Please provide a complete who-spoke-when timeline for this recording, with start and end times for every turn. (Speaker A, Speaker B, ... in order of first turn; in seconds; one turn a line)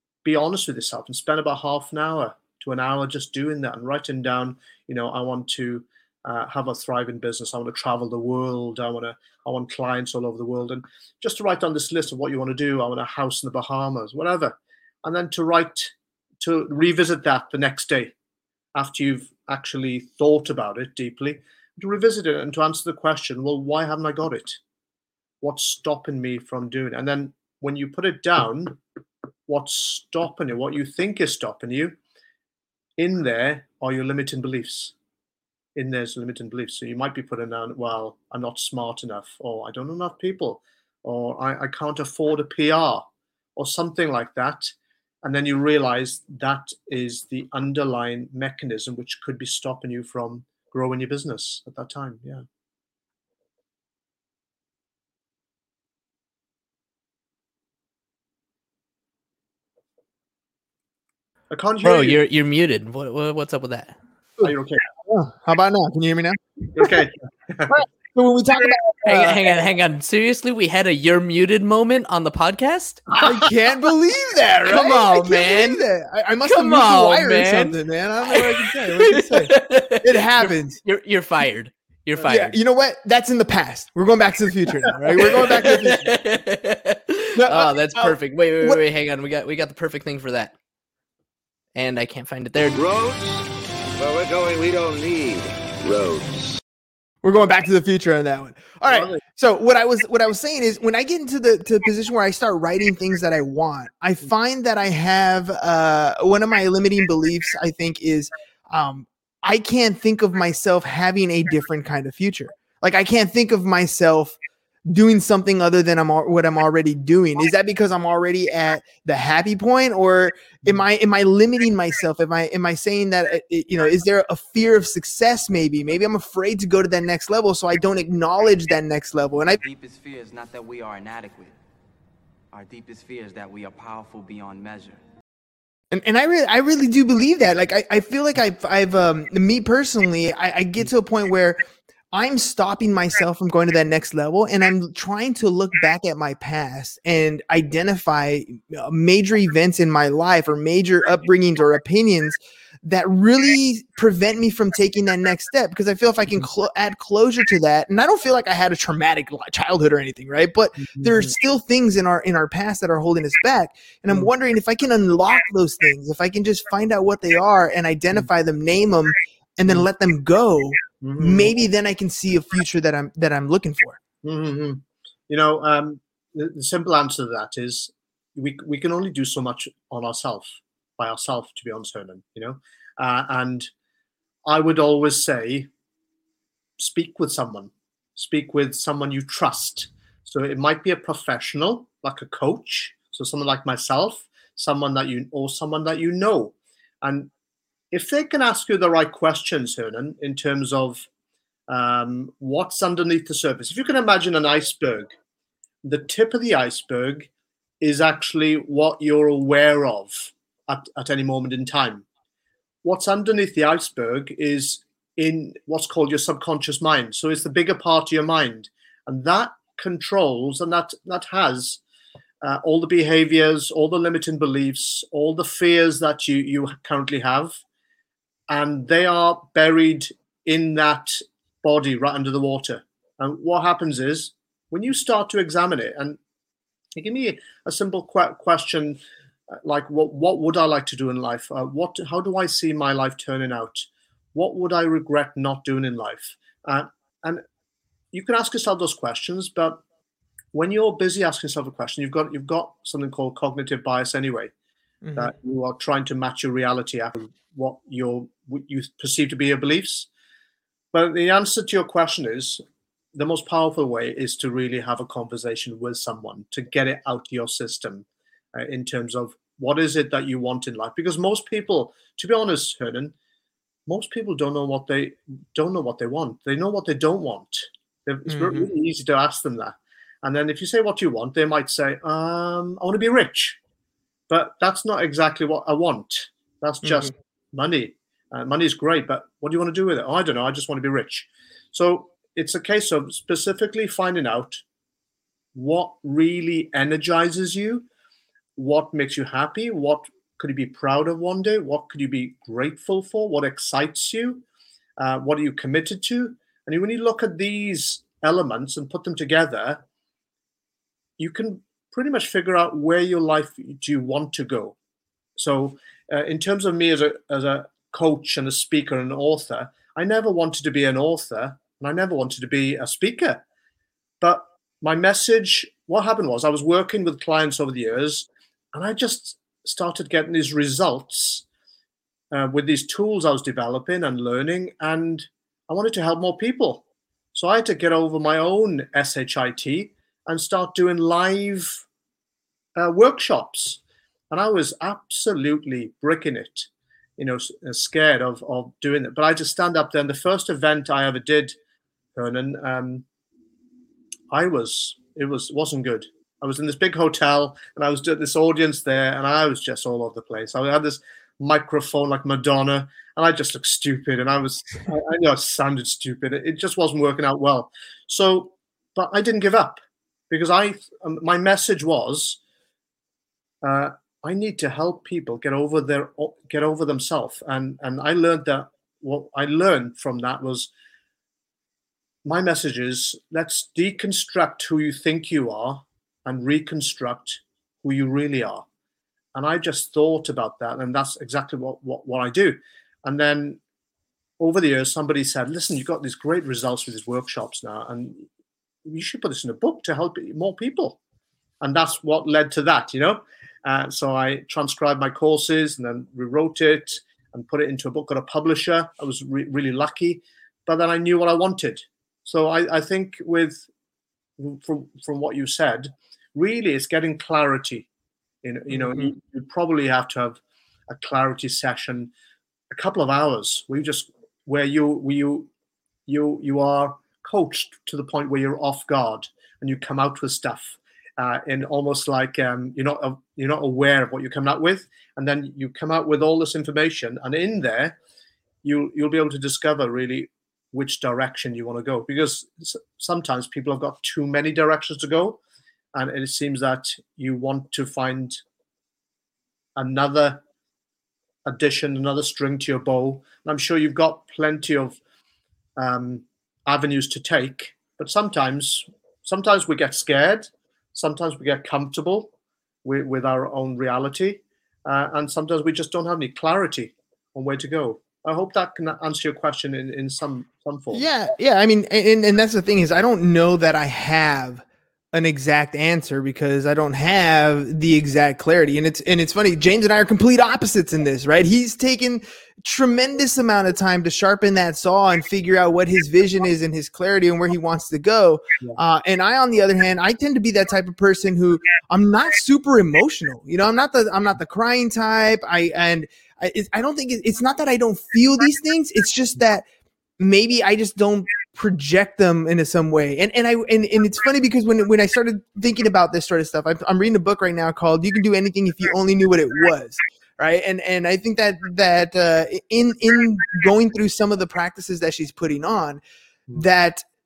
Speaker A: 0.2-18.1
Speaker A: 18.7-24.6
Speaker A: 25.4-28.8
Speaker A: 29.5-31.9
Speaker A: 33.0-34.9
Speaker A: 35.7-52.4
Speaker A: 61.5-62.2
Speaker B: 61.8-63.9
Speaker A: 64.4-64.8
Speaker C: 65.0-66.9
Speaker A: 66.7-67.8
Speaker C: 67.7-69.5
Speaker B: 69.0-73.0
Speaker C: 73.2-80.8
Speaker B: 74.7-75.8
Speaker B: 76.5-82.6
Speaker C: 82.2-86.1
Speaker B: 85.1-90.5
Speaker C: 87.3-88.8
Speaker B: 91.7-92.8
Speaker D: 92.7-96.6
Speaker C: 97.2-129.6
Speaker A: 98.9-99.2
Speaker E: 129.6-131.5
Speaker E: 132.5-135.0
Speaker C: 135.9-141.6
Speaker C: 142.1-174.0
Speaker A: 160.8-161.3
Speaker A: 171.0-171.5
Speaker A: 174.2-183.7
Speaker A: 184.4-185.7
Speaker A: 186.8-197.3
Speaker A: 197.9-201.1
Speaker A: 201.7-205.1
Speaker A: 205.8-207.3
Speaker A: 207.8-212.1
Speaker A: 212.8-221.8
Speaker A: 222.4-227.6
Speaker A: 228.5-236.2
Speaker A: 236.9-239.0
Speaker A: 239.5-247.4
Speaker A: 248.1-249.8
Speaker A: 250.5-254.5
Speaker C: 255.0-255.3
Speaker A: 255.2-260.1
Speaker A: 260.9-262.6
Speaker A: 263.1-273.1
Speaker A: 273.9-283.6
Speaker C: 278.3-278.7
Speaker A: 284.3-294.6
Speaker C: 286.8-287.1
Speaker A: 295.5-297.9
Speaker A: 298.6-304.4
Speaker A: 305.0-309.8
Speaker A: 311.2-314.7
Speaker A: 315.4-323.4
Speaker A: 324.2-331.4
Speaker A: 332.3-341.8
Speaker A: 342.8-351.6
Speaker A: 352.1-353.0
Speaker A: 354.3-369.8
Speaker A: 370.3-372.4
Speaker A: 373.6-380.7
Speaker A: 382.2-388.6
Speaker A: 389.3-393.6
Speaker A: 394.4-398.2
Speaker A: 398.8-401.0
Speaker A: 401.6-413.7
Speaker A: 414.4-417.9
Speaker A: 418.4-420.4
Speaker C: 418.7-419.1
Speaker A: 420.9-422.1
Speaker A: 422.7-425.5
Speaker A: 426.1-438.0
Speaker A: 438.6-445.4
Speaker A: 445.9-448.4
Speaker A: 449.8-450.4
Speaker A: 451.4-455.0
Speaker A: 455.8-462.3
Speaker A: 462.8-471.1
Speaker C: 470.9-499.6
Speaker C: 500.2-516.0
Speaker C: 516.5-517.0